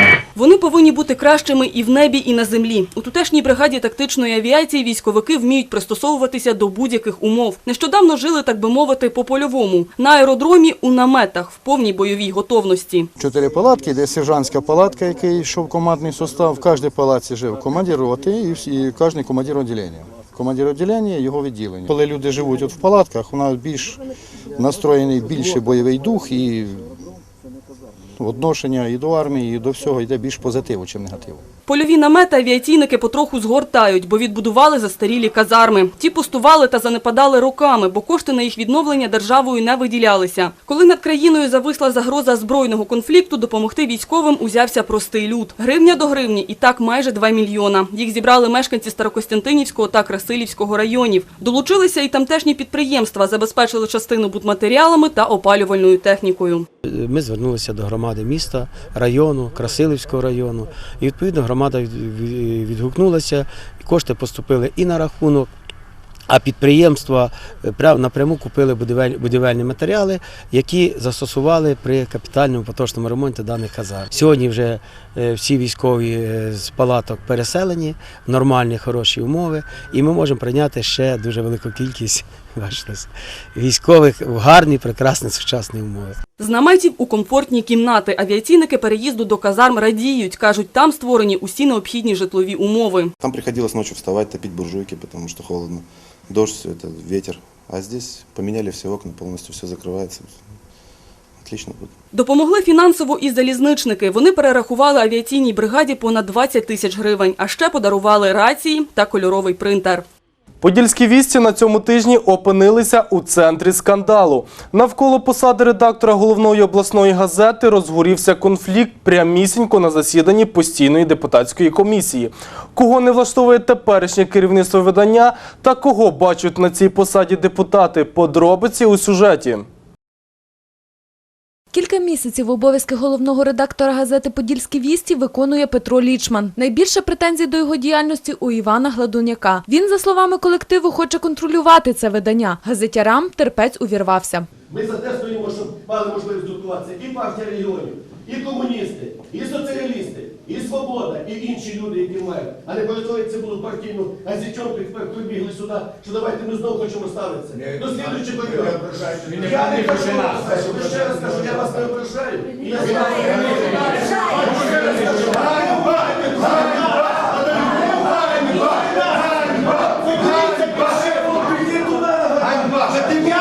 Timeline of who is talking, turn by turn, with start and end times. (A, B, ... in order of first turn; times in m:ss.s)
0:00.4-0:13.1 A
0:13.2-0:24.0 B
0:24.6-0:26.8 B
0:28.2-0:31.4 B
0:31.7-0:56.6 A
0:56.8-1:05.5 C
1:06.3-1:26.2 C
1:26.4-1:33.1 A
1:33.2-1:40.3 D
1:41.4-1:41.9 D
1:42.1-1:50.0 A
1:50.6-2:09.7 E
2:11.7-2:24.5 F
2:24.7-2:46.7 G
2:50.4-2:51.1 G